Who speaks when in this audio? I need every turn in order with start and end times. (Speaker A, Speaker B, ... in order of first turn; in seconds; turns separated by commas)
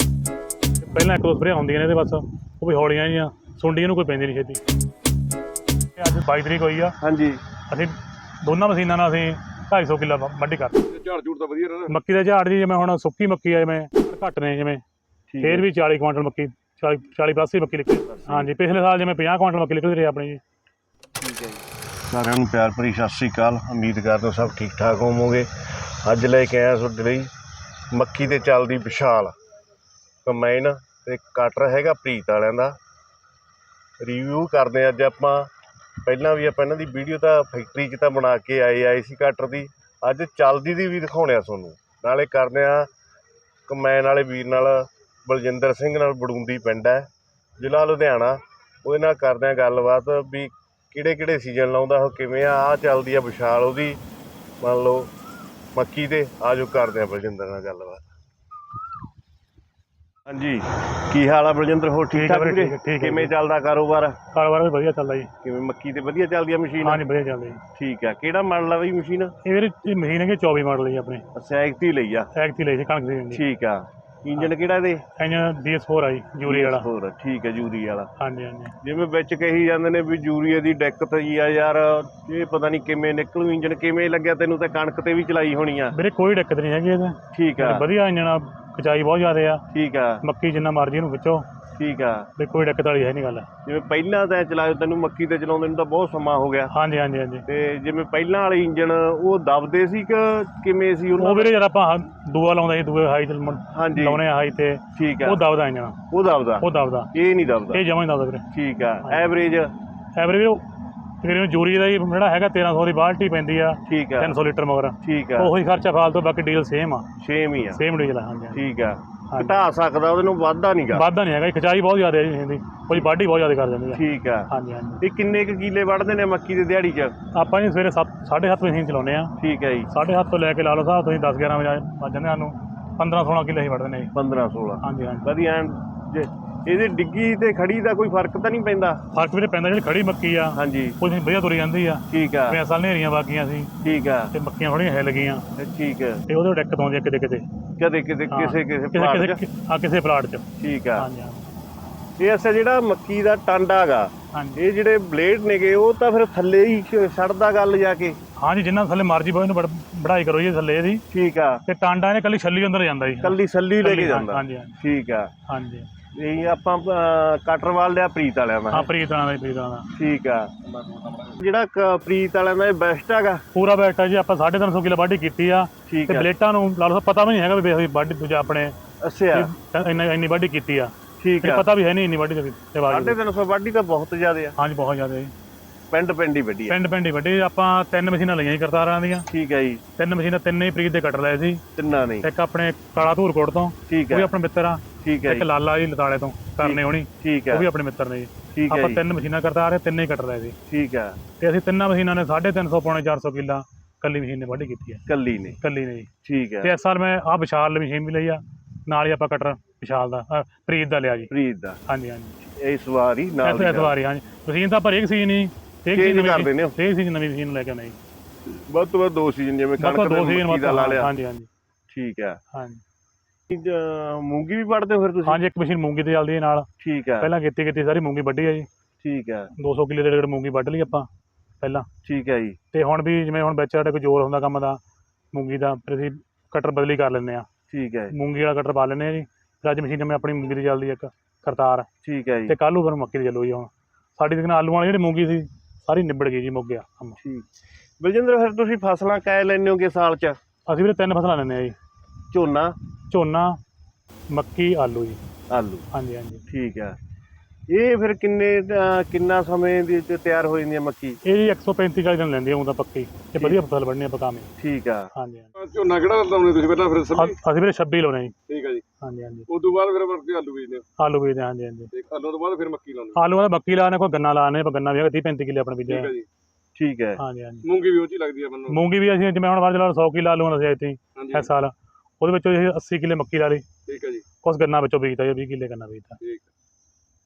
Speaker A: 0.8-4.6, Speaker A: 6.0-7.0, Speaker B: 7.0-7.4, Speaker A: 7.7-10.8, Speaker C: 10.9-12.0, Speaker A: 11.9-14.8, Speaker B: 15.3-15.7, Speaker A: 15.4-20.4, Speaker B: 18.1-18.5, Speaker B: 21.2-25.5, Speaker B: 26.0-27.3, Speaker B: 27.9-29.3, Speaker B: 30.2-32.7, Speaker B: 34.0-35.5, Speaker B: 36.0-42.9, Speaker B: 43.7-47.1, Speaker B: 47.6-54.0, Speaker B: 54.6-55.1, Speaker B: 55.7-58.0, Speaker B: 60.3-64.2, Speaker A: 62.1-63.3, Speaker A: 64.3-65.3, Speaker B: 65.4-67.0, Speaker A: 66.8-67.6, Speaker B: 67.8-69.3, Speaker A: 69.4-71.2, Speaker B: 71.3-72.3, Speaker A: 72.3-73.4, Speaker B: 73.3-75.0, Speaker A: 75.2-76.9, Speaker B: 76.5-78.1, Speaker A: 78.2-78.7, Speaker B: 78.8-85.9, Speaker A: 85.9-89.6, Speaker B: 87.3-87.8, Speaker B: 89.7-90.2, Speaker A: 90.2-91.5, Speaker B: 91.8-92.3, Speaker A: 92.4-93.5, Speaker B: 93.6-96.7, Speaker A: 96.7-97.5, Speaker B: 97.5-101.5, Speaker A: 101.2-106.0, Speaker B: 103.7-104.2, Speaker B: 104.9-105.4, Speaker B: 106.1-107.8, Speaker A: 106.6-107.1, Speaker A: 107.7-108.4, Speaker B: 108.5-109.7, Speaker A: 109.0-109.3, Speaker A: 110.2-110.6, Speaker A: 111.2-117.1, Speaker B: 113.8-114.3, Speaker B: 115.0-115.5, Speaker B: 117.2-117.8, Speaker A: 117.7-118.6, Speaker B: 118.5-121.0, Speaker A: 119.3-119.6, Speaker A: 120.9-125.0, Speaker B: 123.9-124.5, Speaker B: 125.0-127.1, Speaker A: 127.3-129.3, Speaker B: 129.4-129.9, Speaker A: 129.9-134.1, Speaker B: 134.1-139.0, Speaker A: 134.8-135.3, Speaker A: 139.1-143.7, Speaker B: 140.5-141.0, Speaker B: 142.1-142.6, Speaker B: 143.8-144.3, Speaker A: 144.3-145.4, Speaker B: 145.6-146.2, Speaker A: 146.3-147.4, Speaker B: 147.8-149.4, Speaker A: 148.3-150.4, Speaker B: 150.6-151.1, Speaker A: 151.0-151.4, Speaker B: 152.2-158.2, Speaker A: 154.3-154.6, Speaker A: 158.4-161.0, Speaker B: 161.1-161.6, Speaker A: 161.7-164.7, Speaker B: 163.2-165.3, Speaker A: 165.5-165.9, Speaker B: 166.1-168.9, Speaker A: 168.7-169.9, Speaker B: 169.9-170.5, Speaker C: 170.6-171.4, Speaker B: 171.4-173.4, Speaker A: 173.5-178.7, Speaker B: 175.9-176.3, Speaker B: 179.0-179.5, Speaker A: 179.3-183.2, Speaker B: 181.2-181.7, Speaker B: 182.9-184.6, Speaker A: 184.6-185.3, Speaker B: 185.9-186.8, Speaker A: 186.7-189.3, Speaker B: 189.3-189.8, Speaker A: 190.0-191.6, Speaker B: 191.8-192.3, Speaker A: 192.2-200.5, Speaker B: 193.9-194.3, Speaker B: 195.0-195.5, Speaker B: 196.6-197.7, Speaker B: 198.5-199.0, Speaker B: 200.7-201.2, Speaker A: 201.4-205.0, Speaker B: 205.1-205.6, Speaker A: 205.6-206.1, Speaker B: 206.2-206.7, Speaker A: 206.6-211.3, Speaker B: 211.3-211.8, Speaker A: 211.9-212.3, Speaker B: 212.4-213.9, Speaker A: 213.4-218.0, Speaker B: 215.9-216.7, Speaker B: 218.5-221.1, Speaker A: 219.8-221.5, Speaker B: 221.9-222.4, Speaker A: 222.5-222.8, Speaker B: 223.5-225.4, Speaker A: 225.2-226.7, Speaker B: 226.8-227.3, Speaker A: 227.2-228.7, Speaker B: 229.0-229.5, Speaker A: 229.6-231.1, Speaker A: 231.6-231.9, Speaker B: 232.0-232.6, Speaker A: 232.7-234.8, Speaker A: 235.3-237.5, Speaker B: 237.7-238.1, Speaker A: 238.1-241.9, Speaker B: 242.0-242.6, Speaker A: 242.5-247.2, Speaker B: 247.2-247.5, Speaker B: 248.0-250.4, Speaker A: 250.7-251.7, Speaker B: 252.3-252.7, Speaker A: 253.1-253.6, Speaker A: 254.3-255.2, Speaker B: 255.5-255.8, Speaker A: 255.9-256.4, Speaker B: 256.5-256.9, Speaker B: 257.7-261.2, Speaker A: 261.2-264.5, Speaker B: 264.6-265.1, Speaker A: 265.1-265.5, Speaker C: 265.6-267.4, Speaker A: 267.1-268.3, Speaker C: 268.5-268.8, Speaker A: 269.0-269.5, Speaker C: 269.5-270.9, Speaker A: 271.0-271.9, Speaker C: 271.9-273.2, Speaker A: 273.1-276.1, Speaker C: 275.9-276.2, Speaker B: 276.8-277.2, Speaker A: 277.2-277.6, Speaker C: 277.6-278.8, Speaker A: 278.7-283.6, Speaker C: 281.2-281.5, Speaker C: 283.9-284.2, Speaker A: 284.4-286.2, Speaker C: 286.2-286.5